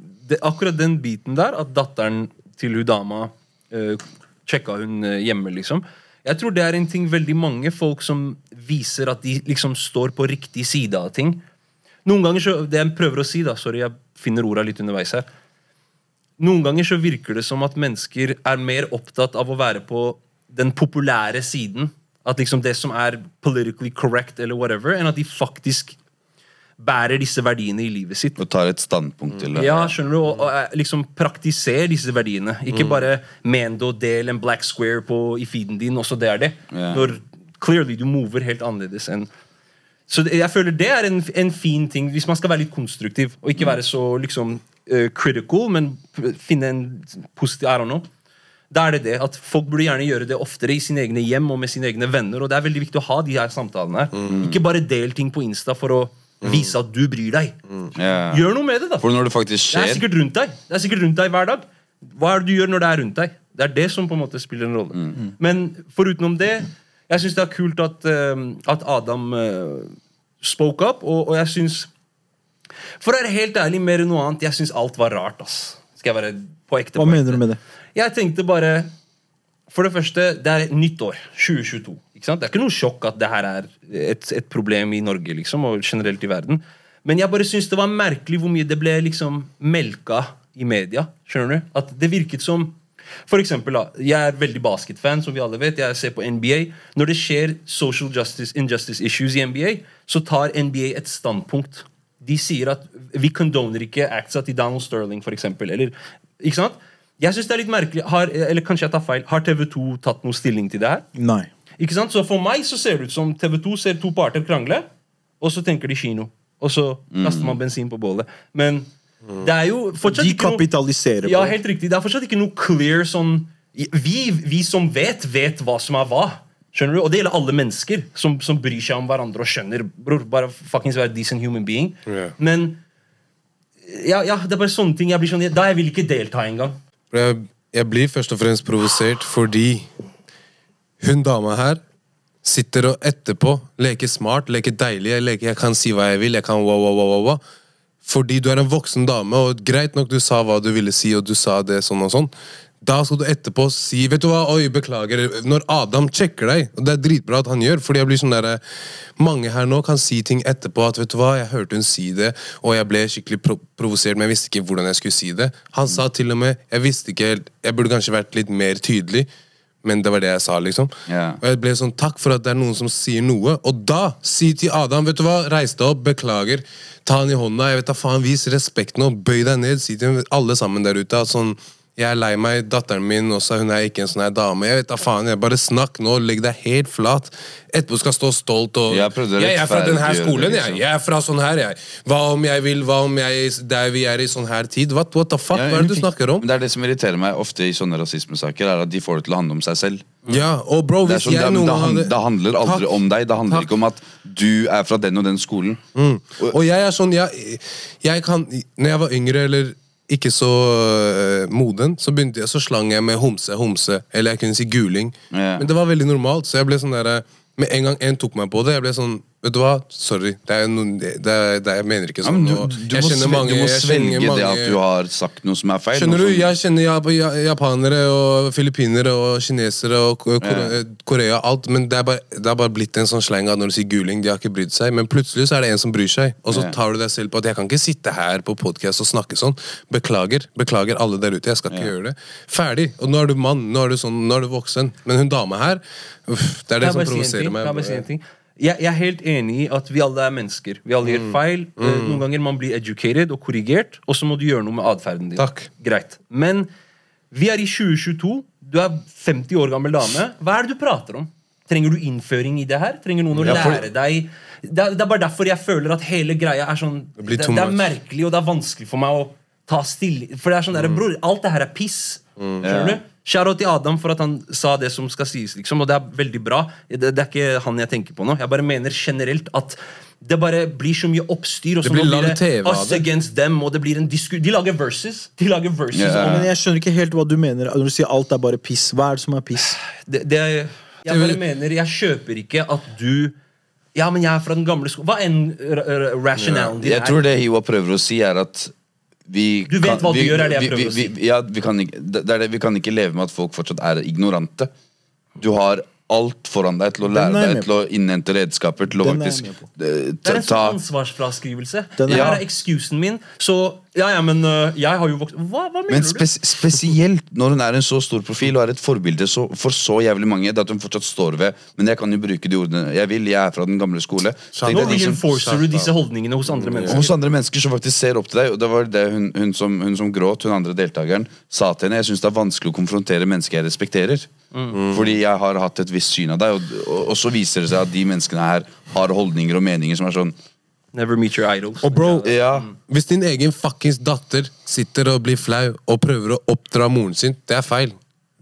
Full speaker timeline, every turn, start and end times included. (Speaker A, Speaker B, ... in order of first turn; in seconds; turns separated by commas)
Speaker A: 0.2-11.4, Speaker A: 12.1-15.3, Speaker A: 16.4-26.0, Speaker A: 26.8-28.4, Speaker B: 28.4-29.9, Speaker A: 29.6-39.3, Speaker B: 36.7-37.1, Speaker A: 40.1-48.1, Speaker A: 48.7-57.6, Speaker B: 54.3-54.6, Speaker C: 56.4-56.7, Speaker B: 58.0-58.5, Speaker A: 58.3-59.0, Speaker B: 59.0-60.0, Speaker A: 59.7-71.9, Speaker B: 64.9-65.2, Speaker A: 73.0-77.4, Speaker D: 77.0-77.6, Speaker A: 78.0-78.9, Speaker A: 79.7-92.8, Speaker A: 93.3-111.0, Speaker D: 111.1-111.5, Speaker A: 111.8-114.9, Speaker A: 115.4-120.6, Speaker B: 117.1-117.6, Speaker D: 120.0-121.6, Speaker A: 121.2-132.8, Speaker C: 132.1-132.3, Speaker A: 133.9-136.8, Speaker C: 137.1-139.9, Speaker C: 141.0-141.8, Speaker C: 142.4-147.4, Speaker C: 148.0-158.6, Speaker C: 159.2-169.3, Speaker C: 169.8-196.5, Speaker B: 171.1-171.4, Speaker B: 188.9-190.8, Speaker B: 195.5-200.2, Speaker C: 200.3-202.9, Speaker B: 201.0-205.8, Speaker C: 206.0-224.8, Speaker B: 215.3-215.7, Speaker B: 222.2-226.5, Speaker C: 225.9-248.0, Speaker B: 230.4-230.8, Speaker B: 236.5-236.8, Speaker A: 246.8-256.7, Speaker C: 251.1-252.2, Speaker C: 255.4-255.7, Speaker A: 257.3-286.5, Speaker B: 263.4-263.8, Speaker C: 267.2-267.9, Speaker C: 270.8-271.0, Speaker C: 272.4-272.6, Speaker B: 272.6-273.0, Speaker C: 281.8-283.1, Speaker B: 285.9-286.4, Speaker D: 286.2-289.8, Speaker A: 290.0-293.4, Speaker C: 291.1-291.4, Speaker A: 293.9-297.2, Speaker C: 296.4-296.7, Speaker B: 296.8-298.7, Speaker B: 299.3-304.7, Speaker A: 299.7-301.1, Speaker B: 305.4-310.8, Speaker D: 307.0-307.7, Speaker D: 309.0-309.6, Speaker A: 310.2-316.3, Speaker D: 312.0-312.4, Speaker B: 312.1-312.4, Speaker B: 315.9-325.2, Speaker C: 324.6-325.9, Speaker A: 324.7-327.1, Speaker C: 326.5-327.1, Speaker B: 326.9-334.3, Speaker A: 334.5-334.8, Speaker C: 334.7-335.1, Speaker B: 334.9-340.4, Speaker A: 340.9-342.8, Speaker C: 341.8-342.3, Speaker B: 342.2-342.7, Speaker C: 342.8-348.0